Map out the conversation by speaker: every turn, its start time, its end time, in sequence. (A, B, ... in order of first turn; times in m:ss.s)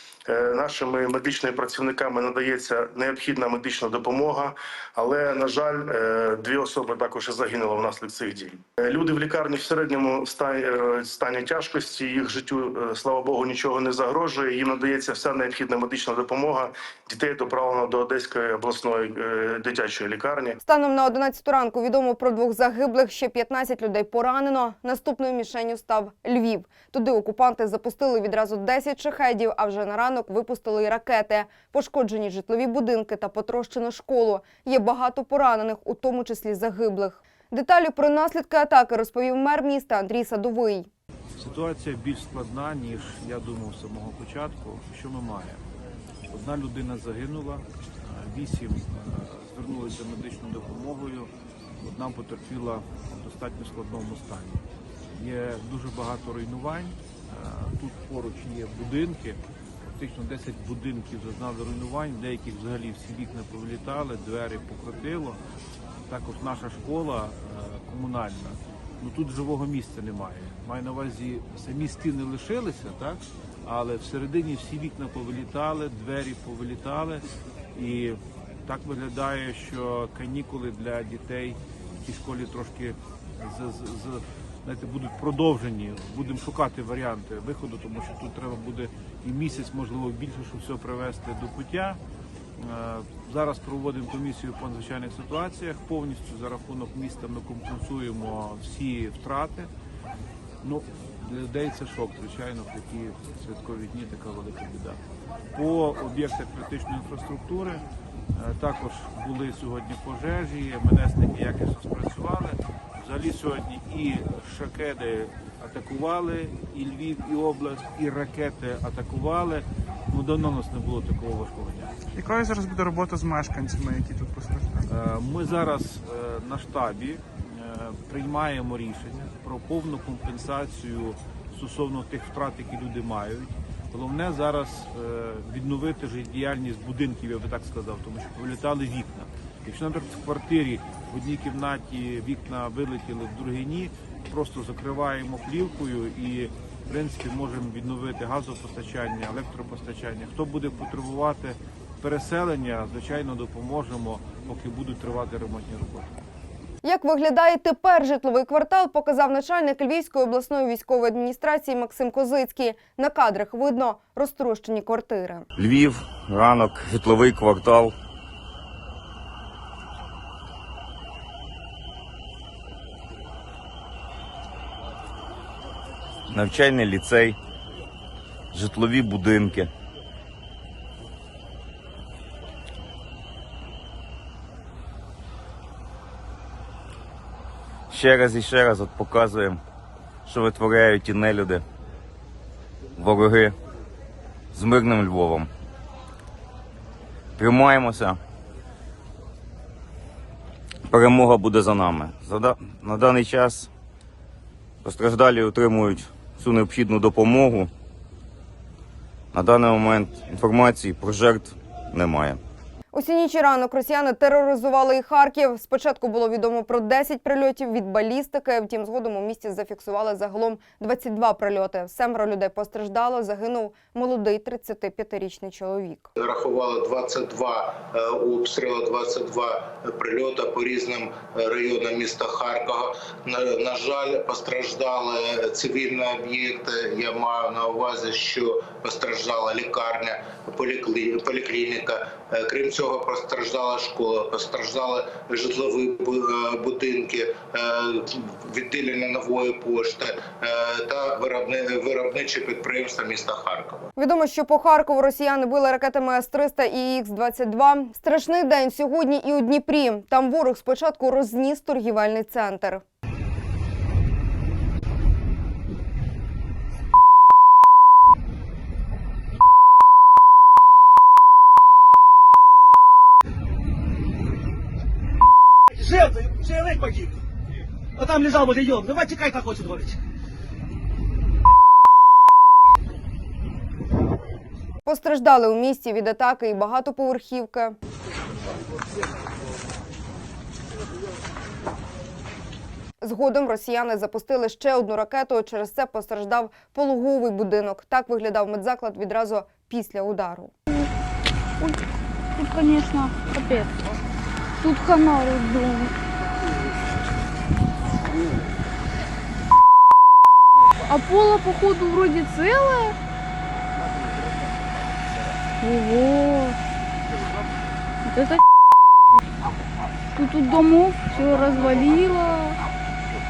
0:00.3-0:20.6 A
0:20.6-0:40.9 B
0:41.4-0:45.6 C
0:46.3-0:54.6 C
0:55.1-1:05.4 C
1:06.1-1:32.0 C
1:32.6-1:39.7 C
1:40.6-1:45.0 C
1:45.5-2:01.9 C
2:02.1-2:04.9 D
2:04.9-2:36.1 C
2:36.8-2:45.4 B
2:45.6-2:47.9 E
2:56.3-2:57.4 E
2:58.5-2:59.7 E
3:07.9-3:09.6 E
3:10.3-3:11.6 E
3:13.0-3:13.6 E
3:14.5-3:15.5 E
3:17.4-3:18.2 E
3:20.9-3:23.7 E
3:24.8-3:27.7 E
3:29.3-3:32.4 E
3:32.9-3:46.1 B
3:46.2-4:13.9 F
4:14.0-4:22.8 B
4:35.8-4:37.1 G
4:38.0-4:39.9 G
4:44.8-4:47.8 B
4:53.0-5:00.5 B
5:02.4-5:03.7 H
5:04.6-5:05.9 H
5:10.9-5:13.0 H
5:15.6-5:16.6 H
5:18.1-5:18.4 H
5:20.2-5:22.6 H